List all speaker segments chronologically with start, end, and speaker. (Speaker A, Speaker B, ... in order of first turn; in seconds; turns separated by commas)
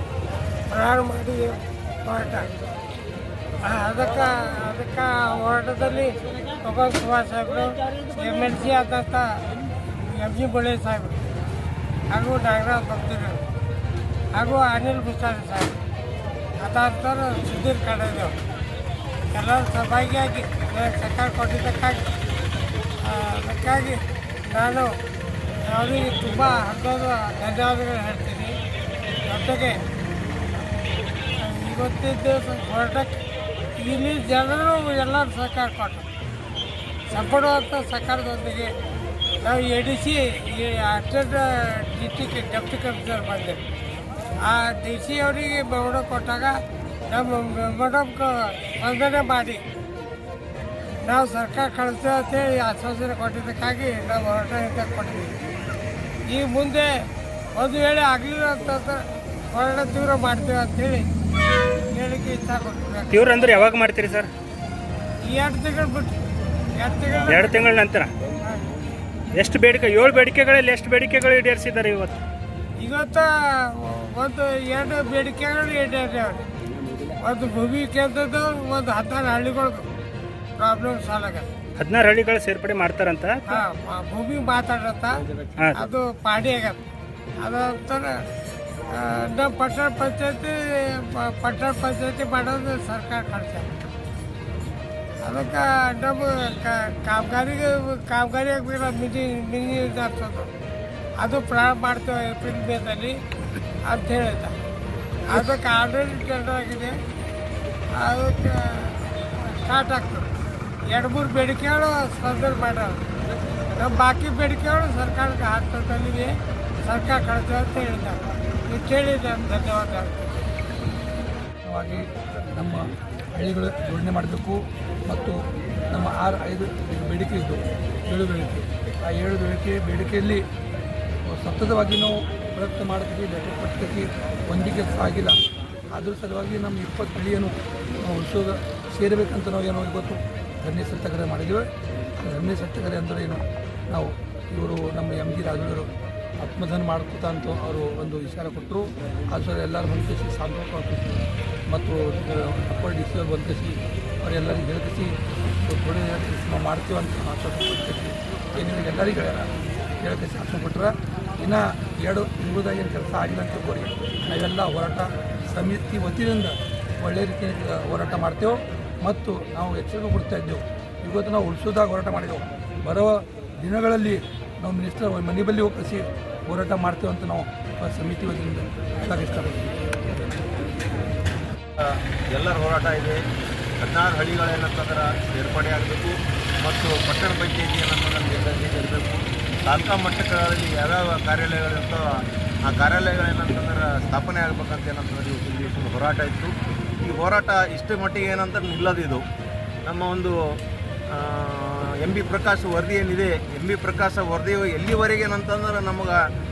Speaker A: 0.7-2.5, Speaker A: 3.6-9.4, Speaker A: 9.9-11.2, Speaker A: 12.1-13.4, Speaker A: 14.3-15.8, Speaker A: 16.6-18.4, Speaker A: 19.3-22.1, Speaker A: 23.0-24.9, Speaker A: 25.6-28.6, Speaker A: 29.3-29.8, Speaker A: 31.4-33.2, Speaker A: 33.7-36.1, Speaker A: 37.1-38.7, Speaker A: 39.4-43.6, Speaker A: 44.4-49.6, Speaker A: 51.0-55.4, Speaker A: 56.3-56.9, Speaker A: 57.5-61.1, Speaker A: 61.9-63.3, Speaker B: 63.1-64.3, Speaker A: 65.2-66.1, Speaker A: 66.8-67.8, Speaker B: 67.3-68.1, Speaker A: 68.4-68.7, Speaker B: 69.3-72.2, Speaker A: 72.8-76.5, Speaker A: 77.2-79.9, Speaker A: 80.6-81.5, Speaker B: 81.8-83.6, Speaker A: 83.5-85.2, Speaker A: 85.7-86.8, Speaker A: 87.4-88.2, Speaker A: 88.9-93.8, Speaker A: 95.2-100.5, Speaker A: 101.2-103.2, Speaker A: 103.8-104.5, Speaker A: 105.3-107.0, Speaker A: 107.9-110.3, Speaker A: 110.9-113.1, Speaker A: 113.7-120.3, Speaker C: 121.7-125.4, Speaker C: 125.9-130.4, Speaker C: 131.3-135.4, Speaker C: 135.9-141.7, Speaker C: 142.2-145.9, Speaker C: 146.4-155.1, Speaker C: 155.6-159.5, Speaker C: 160.0-179.6, Speaker D: 181.8-183.2, Speaker D: 183.8-199.2, Speaker D: 199.8-200.3, Speaker D: 201.1-206.2